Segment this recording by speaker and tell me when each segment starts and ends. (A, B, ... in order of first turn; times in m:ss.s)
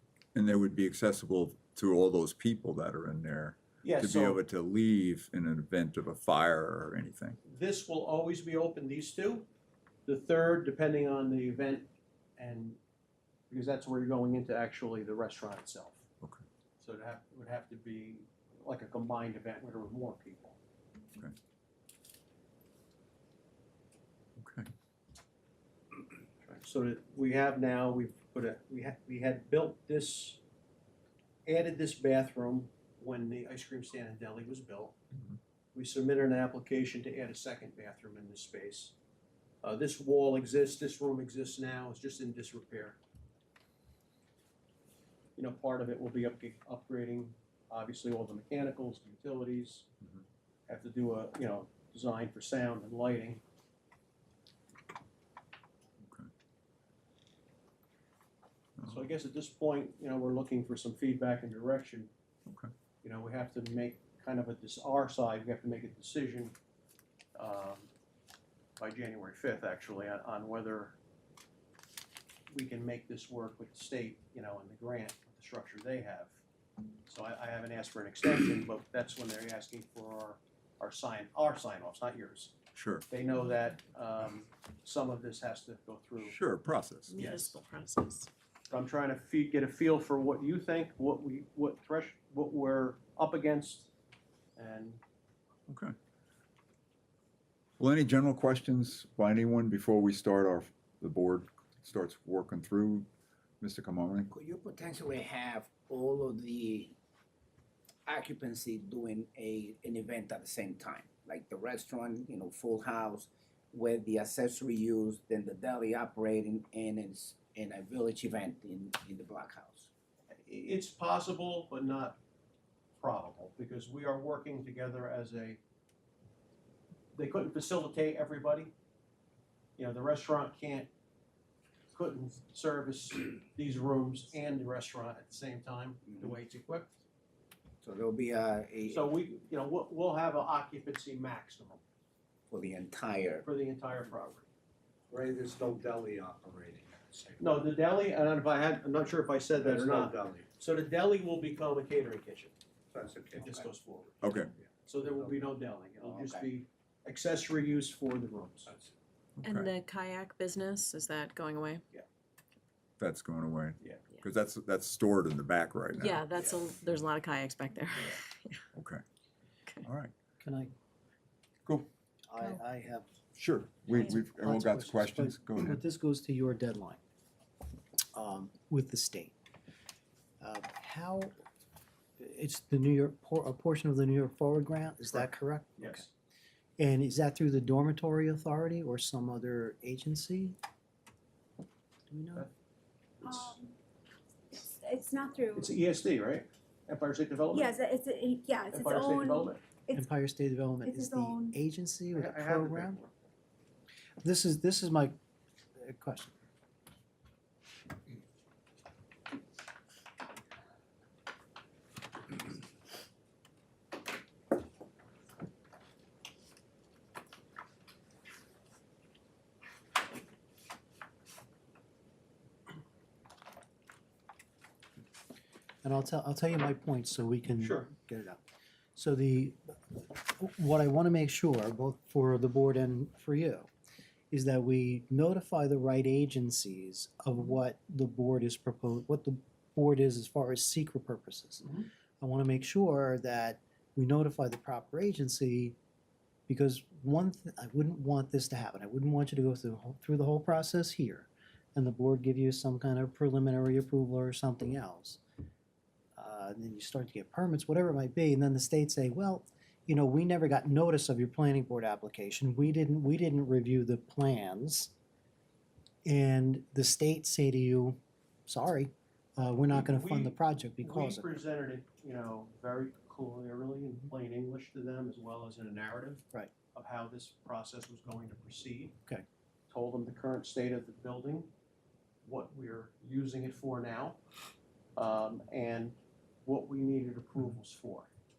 0:00.3-0:07.4 A
0:03.8-0:04.4 B
0:07.4-0:09.4 B
0:10.0-0:12.8 B
0:13.5-0:16.0 B
0:16.8-0:20.6 B
0:24.4-0:24.7 A
0:26.4-0:30.4 B
0:31.4-0:35.0 B
0:35.7-0:39.0 B
0:39.6-0:43.0 B
0:45.4-0:49.9 B
0:50.7-0:53.4 B
0:58.9-1:02.1 B
1:03.0-1:06.5 B
1:07.3-1:07.9 B
1:08.8-1:11.0 B
1:12.5-1:16.4 B
1:17.0-1:22.5 B
1:22.7-1:23.0 A
1:23.1-1:26.4 B
1:26.2-1:27.2 A
1:27.1-1:28.3 C
1:27.2-1:27.6 B
1:28.7-1:33.9 B
1:34.6-1:35.0 B
1:35.7-1:35.9 A
1:37.8-1:43.1 A
1:43.6-1:44.3 A
1:44.3-1:46.9 D
1:48.0-1:59.9 D
2:00.3-2:02.2 B
2:03.0-2:05.6 B
2:07.1-2:08.7 B
2:09.8-2:10.9 B
2:11.9-2:16.9 B
2:17.8-2:19.1 D
2:18.9-2:21.8 B
2:22.5-2:23.4 D
2:23.4-2:24.5 B
2:25.1-2:27.3 E
2:27.4-2:32.5 B
2:29.7-2:30.4 E
2:32.9-2:33.4 E
2:33.4-2:38.7 B
2:34.2-2:34.5 A
2:36.0-2:36.4 D
2:39.4-2:39.7 A
2:39.4-2:41.8 C
2:43.0-2:46.3 A
2:45.9-2:48.6 C
2:48.7-2:49.0 A
2:49.8-2:50.1 A
2:50.4-2:50.7 F
2:52.3-2:53.0 F
2:53.4-2:55.8 A
2:53.9-2:57.0 F
2:58.1-2:59.3 F
3:00.4-3:01.3 F
3:02.2-3:06.0 F
3:05.8-3:06.1 B
3:06.8-3:10.6 F
3:12.1-3:12.5 F
3:13.2-3:13.5 B
3:13.2-3:13.7 G
3:14.5-3:15.7 G
3:15.6-3:17.8 B
3:17.5-3:20.1 G
3:18.7-3:19.6 B
3:19.9-3:23.0 F
3:20.8-3:21.5 G
3:22.1-3:23.1 B
3:24.2-3:25.1 F
3:25.8-3:26.3 F
3:45.8-3:48.4 F
3:47.6-3:47.9 B
3:49.0-3:53.7 F
3:54.3-4:05.8 F
4:06.5-4:15.2 F
4:16.2-4:24.9 F
4:26.0-4:31.3 F
4:29.7-4:39.0 B
4:39.7-4:41.5 B
4:42.2-4:44.2 B
4:45.0-4:48.1 B